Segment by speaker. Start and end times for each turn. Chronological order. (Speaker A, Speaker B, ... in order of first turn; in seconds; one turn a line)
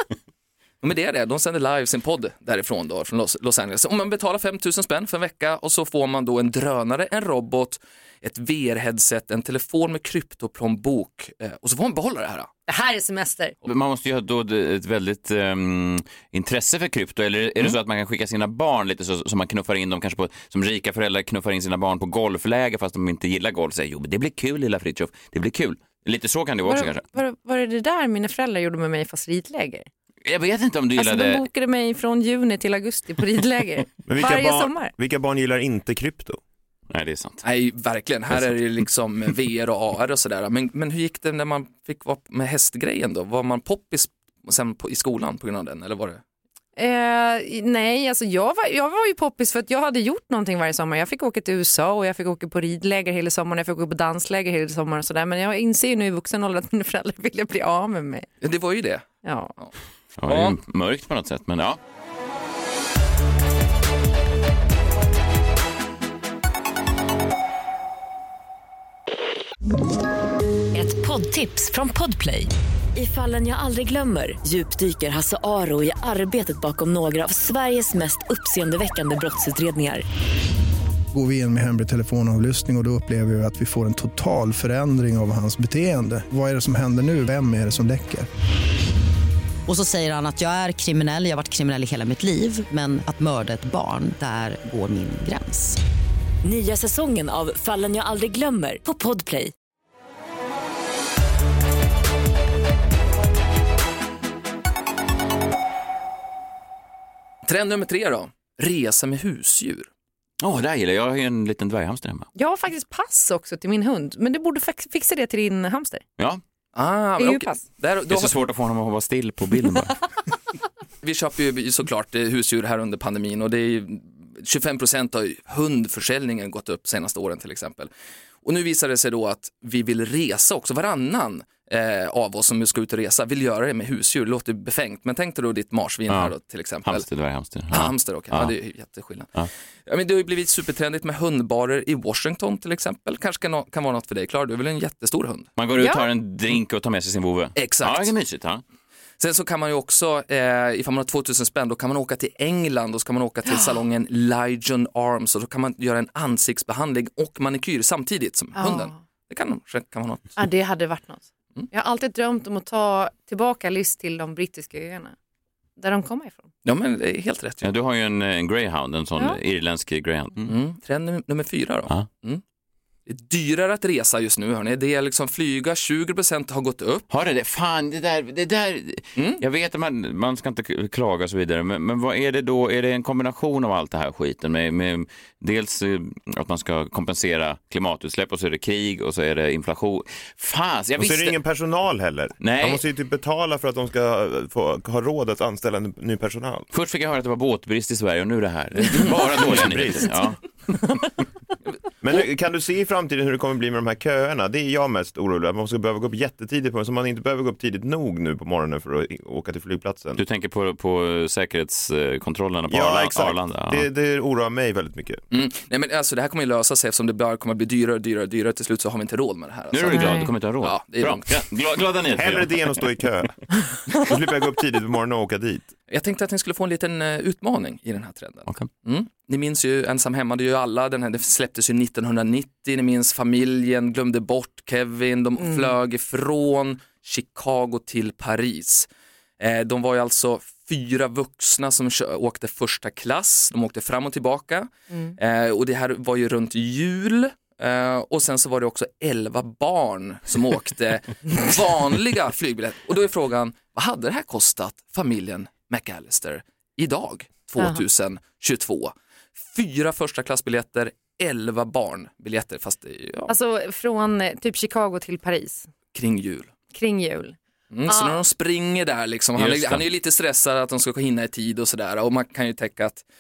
Speaker A: 0.8-12.5
Speaker B: 12.7-13.6
Speaker C: 13.6-27.1
Speaker B: 26.6-29.9
Speaker C: 30.2-31.4
Speaker B: 31.0-34.9
Speaker D: 34.1-36.4
Speaker C: 36.9-37.4
Speaker A: 37.4-46.2
Speaker B: 46.8-58.3
Speaker A: 58.4-59.1
Speaker B: 59.2-59.5
Speaker C: 60.2-61.8
Speaker A: 60.3-60.6
Speaker E: 70.7-80.0
Speaker F: 81.1-88.3
Speaker G: 89.7-95.8
Speaker E: 96.4-99.5
Speaker A: 107.5-109.9
Speaker C: 110.4-112.3
Speaker B: 112.4-116.0
Speaker A: 116.8-118.3
Speaker B: 117.2-117.6
Speaker C: 118.1-120.0
Speaker A: 121.0-127.9
Speaker A: 128.4-137.1
Speaker C: 136.8-138.5
Speaker A: 137.7-139.3
Speaker A: 139.9-145.5
Speaker C: 145.6-148.6
Speaker B: 145.8-146.1
Speaker A: 147.6-148.1
Speaker A: 149.2-160.4
Speaker B: 158.6-159.0
Speaker B: 160.4-165.2
Speaker B: 165.8-166.5
Speaker A: 166.7-167.7
Speaker C: 167.6-170.5
Speaker A: 170.5-172.4
Speaker A: 173.1-177.1
Speaker C: 177.1-191.4
Speaker A: 179.2-179.4
Speaker D: 191.0-196.7
Speaker C: 192.4-192.8
Speaker C: 196.7-200.9
Speaker D: 198.9-200.3
Speaker D: 202.0-210.2
Speaker C: 210.2-213.9
Speaker D: 212.7-215.2
Speaker A: 215.3-221.2
Speaker C: 219.7-222.5
Speaker B: 219.9-220.3
Speaker D: 222.1-225.7
Speaker A: 225.9-238.9
Speaker B: 235.4-235.7
Speaker A: 239.4-263.3
Speaker B: 244.9-245.2
Speaker B: 263.3-265.7
Speaker A: 265.9-266.5
Speaker B: 266.7-267.4
Speaker A: 267.7-273.0
Speaker B: 267.9-268.2
Speaker C: 269.4-269.9